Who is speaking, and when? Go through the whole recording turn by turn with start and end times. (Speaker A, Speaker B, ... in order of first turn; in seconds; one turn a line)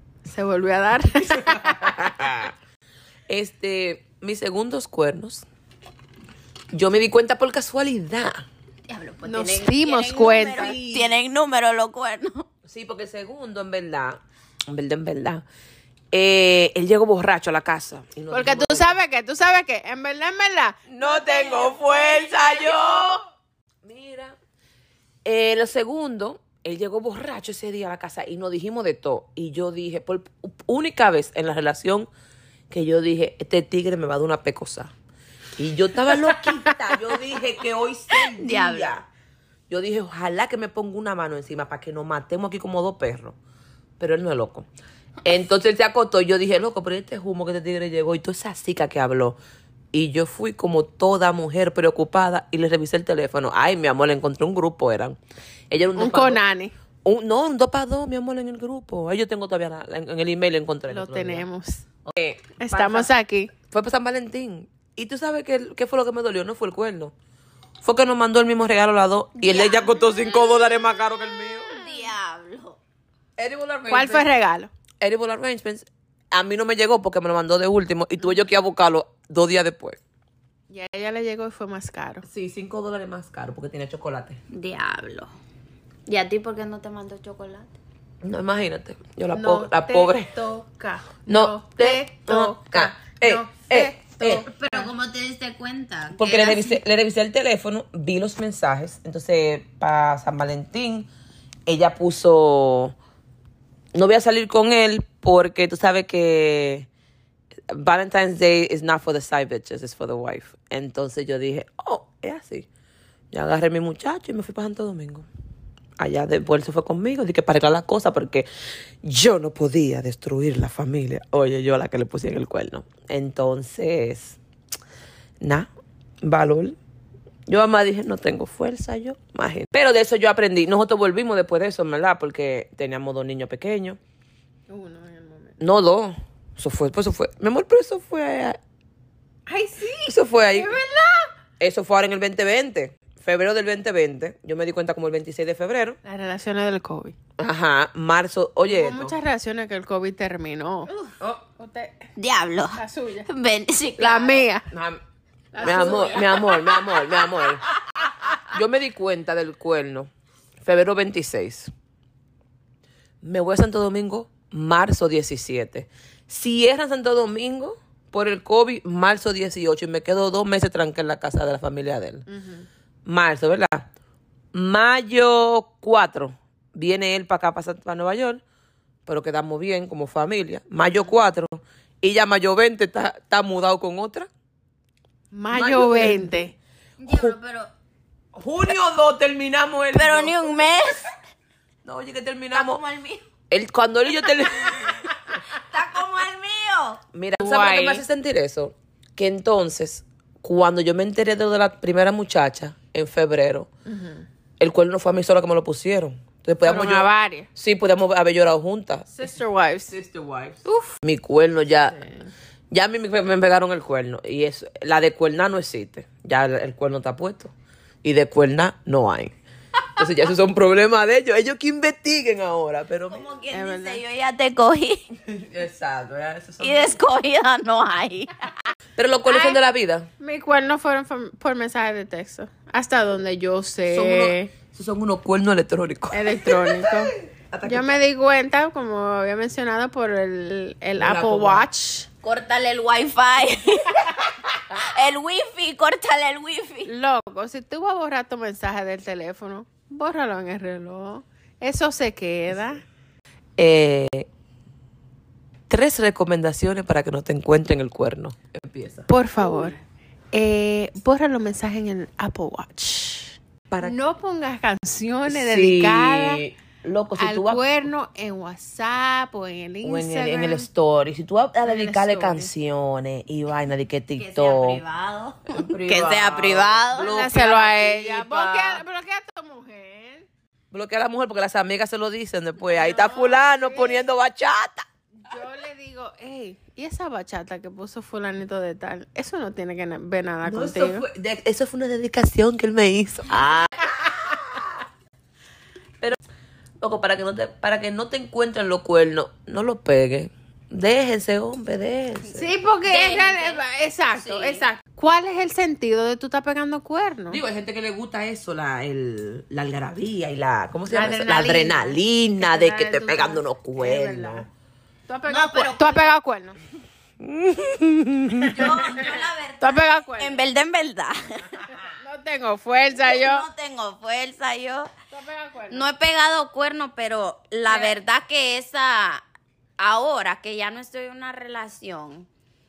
Speaker A: 0.2-2.3
Speaker B: 1.8-2.5
Speaker B: 3.3-5.4
Speaker B: 6.7-8.5
Speaker C: 8.9-12.5
Speaker A: 9.2-10.8
Speaker B: 10.5-11.2
Speaker B: 12.6-15.4
Speaker B: 16.1-18.9
Speaker A: 18.3-22.4
Speaker B: 20.9-23.2
Speaker C: 21.6-22.8
Speaker B: 23.8-24.4
Speaker B: 25.2-32.1
Speaker B: 32.7-34.9
Speaker B: 35.6-39.1
Speaker C: 38.4-38.9
Speaker B: 39.7-43.4
Speaker B: 44.0-44.7
Speaker B: 45.2-49.4
Speaker B: 49.9-55.2
Speaker B: 55.7-56.4
Speaker A: 56.0-56.7
Speaker B: 57.0-61.5
Speaker A: 60.9-61.8
Speaker B: 62.0-63.1
Speaker A: 62.6-63.5
Speaker B: 63.7-67.1
Speaker B: 67.8-71.7
Speaker C: 69.3-70.9
Speaker C: 71.6-72.8
Speaker B: 73.4-74.3
Speaker A: 73.9-74.7
Speaker B: 75.0-80.0
Speaker A: 80.7-82.2
Speaker B: 82.2-84.4
Speaker C: 84.5-85.3
Speaker C: 86.1-87.7
Speaker B: 88.2-90.3
Speaker A: 89.3-94.9
Speaker B: 91.3-94.4
Speaker C: 94.4-96.8
Speaker B: 96.1-101.1
Speaker B: 101.7-102.9
Speaker B: 103.9-106.9
Speaker B: 107.7-112.7
Speaker B: 113.3-115.3
Speaker B: 116.0-118.5
Speaker B: 119.0-124.4
Speaker B: 125.4-125.7
Speaker B: 126.2-126.8
Speaker B: 127.5-134.0
Speaker A: 134.7-135.6
Speaker B: 135.6-138.6
Speaker A: 139.5-141.3
Speaker B: 140.1-140.8
Speaker B: 141.6-146.0
Speaker A: 146.0-147.2
Speaker B: 147.4-149.1
Speaker A: 148.7-150.9
Speaker A: 151.6-152.1
Speaker C: 152.2-154.4
Speaker A: 152.7-153.3
Speaker A: 154.0-154.7
Speaker B: 154.7-155.0
Speaker A: 155.5-156.7
Speaker B: 155.6-157.6
Speaker C: 155.6-156.2
Speaker B: 158.4-160.1
Speaker B: 160.6-161.7
Speaker B: 163.2-172.2
Speaker A: 172.3-172.7
Speaker B: 173.1-173.9
Speaker B: 174.5-178.4
Speaker B: 179.1-184.3
Speaker A: 185.3-186.5
Speaker B: 185.5-186.5
Speaker C: 187.0-187.7
Speaker B: 187.1-187.4
Speaker B: 188.3-190.4
Speaker C: 189.9-191.1
Speaker B: 191.8-192.8
Speaker C: 192.5-193.2
Speaker B: 193.5-195.0
Speaker C: 195.5-197.0
Speaker B: 197.1-203.7
Speaker A: 197.4-198.0
Speaker A: 203.9-204.2
Speaker B: 204.6-209.3
Speaker A: 206.6-207.5
Speaker A: 209.1-209.9
Speaker B: 209.9-212.0
Speaker A: 210.7-210.9
Speaker A: 211.9-212.3
Speaker B: 212.7-219.3
Speaker B: 219.9-223.3
Speaker C: 223.1-225.0
Speaker A: 223.5-224.0
Speaker B: 225.1-227.0
Speaker C: 226.6-228.3
Speaker B: 228.9-230.1
Speaker A: 229.3-229.6
Speaker A: 230.2-234.5
Speaker B: 233.9-237.9
Speaker A: 236.1-237.1
Speaker A: 237.6-242.1
Speaker B: 241.0-241.7
Speaker C: 242.2-246.9
Speaker A: 246.8-252.8
Speaker B: 253.6-254.3
Speaker B: 255.7-259.1
Speaker A: 259.1-259.8
Speaker A: 260.3-266.4
Speaker B: 263.7-264.0
Speaker B: 265.2-267.9
Speaker A: 267.1-270.7
Speaker B: 269.8-274.8
Speaker A: 271.6-272.5
Speaker C: 274.2-277.2
Speaker B: 275.5-278.8
Speaker A: 276.9-280.3
Speaker B: 280.7-284.8
Speaker A: 282.6-284.1
Speaker A: 285.2-291.0
Speaker B: 290.4-294.4
Speaker B: 296.8-302.5
Speaker A: 302.3-307.4
Speaker C: 302.8-304.6
Speaker B: 307.3-314.5
Speaker A: 310.9-314.5
Speaker A: 315.1-316.6
Speaker C: 315.3-316.1
Speaker B: 317.2-318.5
Speaker C: 318.4-321.6
Speaker A: 319.6-320.4
Speaker A: 321.7-323.5
Speaker C: 322.9-324.9
Speaker A: 325.1-325.9
Speaker C: 325.7-329.2
Speaker A: 327.6-328.0
Speaker C: 329.8-332.3